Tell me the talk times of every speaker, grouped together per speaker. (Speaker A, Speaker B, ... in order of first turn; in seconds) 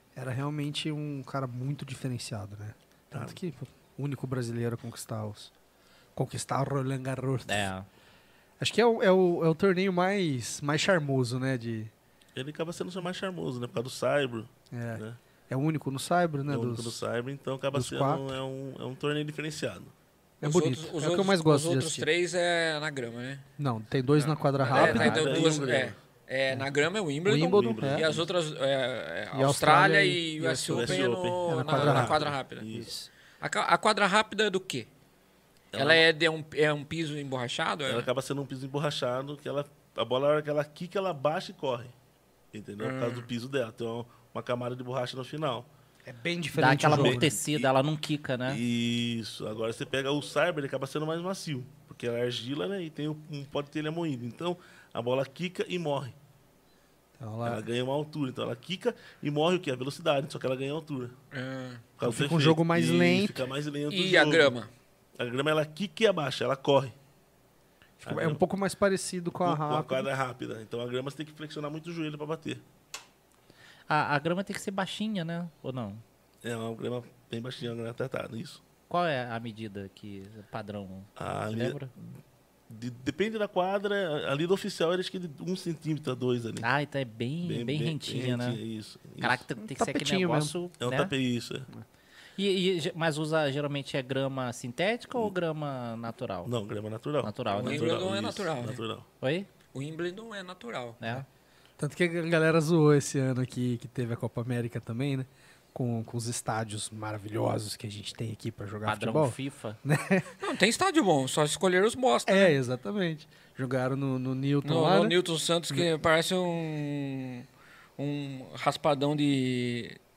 Speaker A: 0.2-5.5, 6.2-7.7, 8.6-11.9, 14.7-17.0, 17.7-18.4, 20.4-22.1, 23.6-25.6, 27.2-28.0, 29.3-33.1, 46.1-47.3, 57.2-57.6, 62.0-63.4, 68.0-70.1, 89.6-90.5, 101.8-110.3, 112.3-115.2
Speaker B: 3.1-3.4, 12.3-15.2, 16.5-19.9, 24.7-26.0, 27.5-28.3, 30.7-32.9, 35.7-36.1, 37.9-41.9, 42.5-45.7, 46.9-47.7, 48.5-56.1, 57.4-61.1, 62.0-64.6, 65.2-67.0, 68.0-68.4, 69.4-72.6, 76.4-78.6, 81.2-82.2, 82.7-86.7, 87.4-89.5, 90.8-91.7, 96.5-99.1
Speaker C: 7.5-7.9, 46.5-48.6, 73.9-76.0, 78.9-81.9, 86.6-88.6, 89.2-91.1, 92.4-96.5, 97.2-98.0, 99.2-99.5, 101.0-101.3, 108.8-109.8
Speaker D: 20.4-23.4, 24.3-32.7, 33.4-34.9, 35.8-38.1, 42.8-43.3, 61.3-61.9, 63.9-64.7, 97.5-98.8, 99.7-101.2, 110.4-112.6, 114.6-117.5, 118.0-120.0